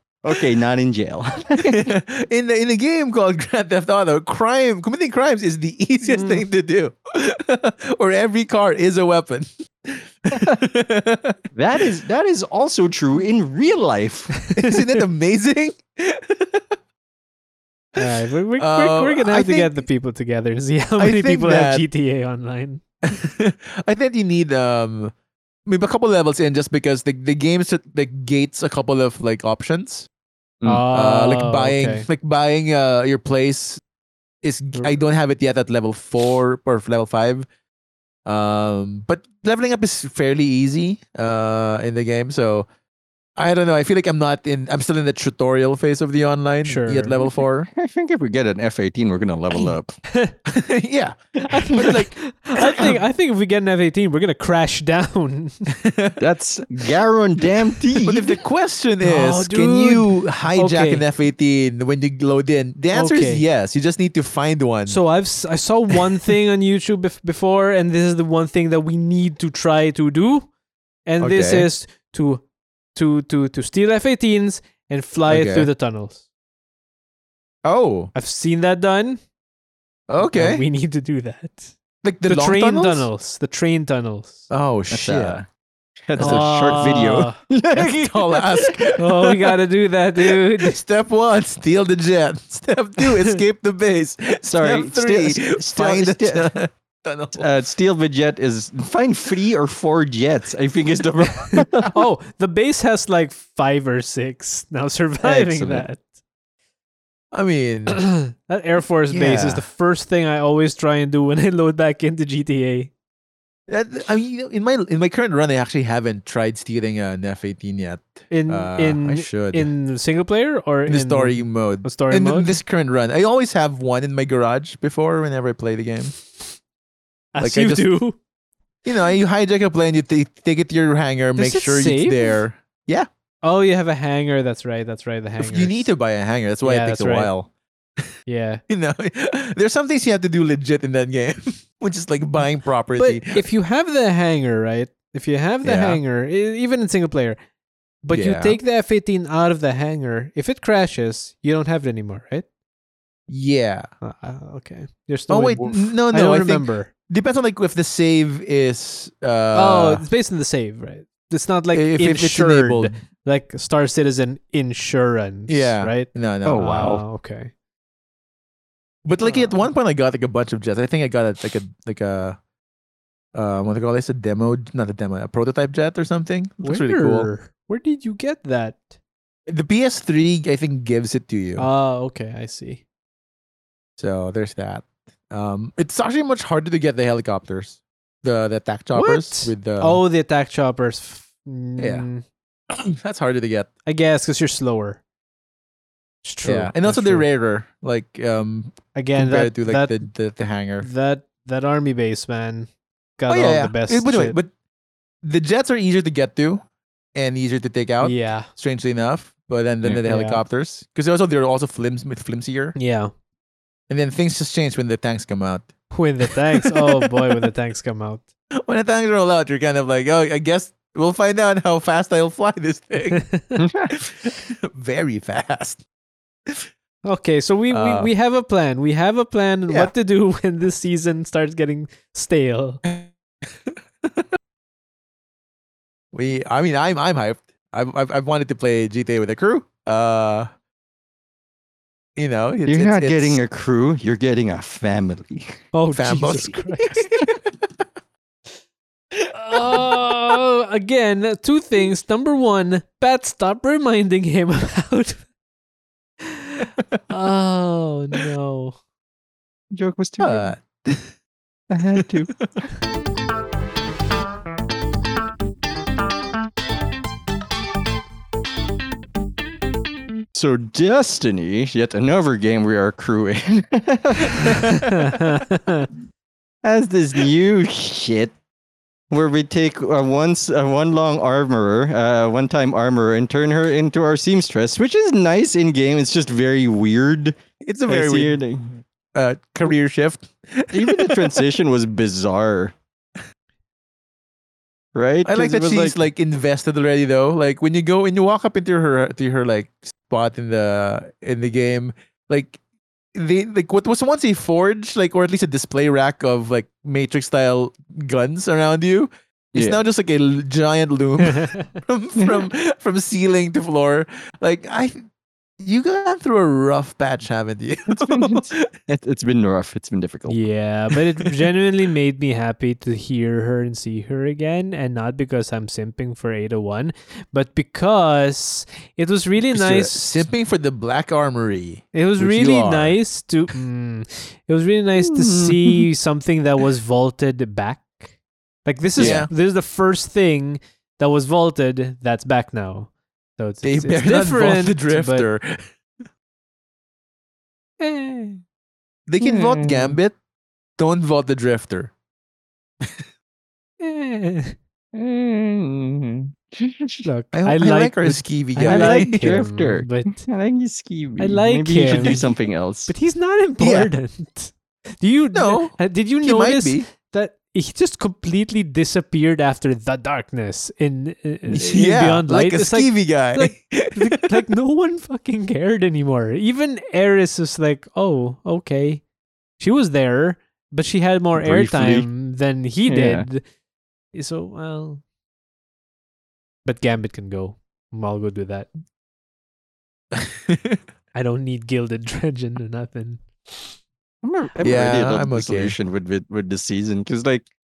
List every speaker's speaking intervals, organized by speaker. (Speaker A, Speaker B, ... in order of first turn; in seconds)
Speaker A: 0.2-1.9, 11.6-14.4, 47.2-50.0, 56.2-58.4, 84.9-85.5, 86.0-88.7, 94.4-96.5, 97.3-101.8, 105.2-105.8, 166.4-167.0, 223.6-223.9, 242.7-245.6, 259.7-260.6, 261.7-262.7, 270.3-274.9, 276.6-278.3, 279.1-287.4, 287.9-288.7, 290.7-292.7, 294.9-296.0, 309.5-309.8, 312.2-312.5, 317.9-320.4, 335.1-335.8, 339.0-339.2, 349.2-350.0, 354.9-357.1, 358.6-362.9, 371.5-371.8, 381.4-382.1, 382.9-383.2, 394.2-397.5
Speaker B: 1.6-11.4, 14.6-16.8, 18.6-19.8, 21.0-21.8, 23.1-25.1, 25.6-30.1, 30.9-33.8, 34.4-37.5, 38.2-42.7, 43.4-47.7, 50.5-51.1, 51.7-52.9, 55.7-56.2, 58.0-65.0, 71.2-71.7, 75.3-75.7, 77.6-78.1, 80.1-80.6, 82.0-83.1, 84.5-85.4, 86.2-87.0, 87.7-89.3, 90.3-97.5, 107.3-108.0, 109.1-109.7, 113.7-119.7, 120.9-126.1, 127.4-127.9, 128.8-133.1, 135.4-138.1, 138.7-143.4, 145.6-146.0, 148.1-148.6, 153.3-153.9, 155.3-160.0, 161.7-162.9, 165.5-166.7, 169.1-172.4, 173.3-177.3, 179.5-181.7, 184.0-190.0, 191.8-192.1, 192.7-193.7, 196.4-200.9, 203.3-204.5, 205.2-212.7, 213.9-215.7, 216.6-217.2, 218.6-223.2, 223.9-225.8, 227.7-228.1, 232.8-233.1, 233.7-234.3, 236.1-240.5, 242.2-243.4, 245.9-247.7, 249.2-250.0, 260.2-261.1, 287.6-288.4, 289.1-291.4, 295.2-302.6, 303.1-315.0, 315.6-318.7, 329.5-333.0, 339.0-339.3, 343.6-345.6, 349.1-350.1, 350.8-351.9, 357.3-359.4, 363.6-363.9, 365.3-366.9, 371.6-374.3, 390.1-390.8, 394.6-395.7
Speaker C: 6.1-6.4, 14.5-14.8, 17.9-22.8, 30.6-32.1, 46.6-47.2, 51.5-55.7, 59.0-61.0, 62.9-63.4, 64.9-70.5, 71.0-72.4, 72.9-76.2, 78.1-79.2, 80.2-81.7, 82.3-84.5, 86.2-87.4, 89.0-90.8, 101.5-106.0, 107.9-112.9, 118.3-122.6, 127.3-128.2, 131.4-132.4, 133.4-135.9, 136.6-137.3, 138.3-138.6, 142.9-147.4, 148.0-152.4, 154.0-156.9, 159.5-167.5, 169.2-169.6, 176.6-178.9, 181.6-182.8, 188.9-192.2, 193.9-195.0, 196.2-197.2, 198.9-200.1, 200.8-204.4, 208.0-208.5, 210.0-210.4, 212.8-213.1, 215.9-218.2, 223.1-223.6, 227.0-232.8, 245.7-247.1, 249.3-255.2, 256.2-258.8, 274.6-275.9, 311.2-311.7, 320.3-330.2, 331.9-338.1, 338.6-345.2, 347.8-348.4, 353.8-354.6, 357.1-360.2, 361.2-362.3, 362.9-379.0, 379.6-383.4, 384.1-385.0, 386.6-388.7, 391.1-393.7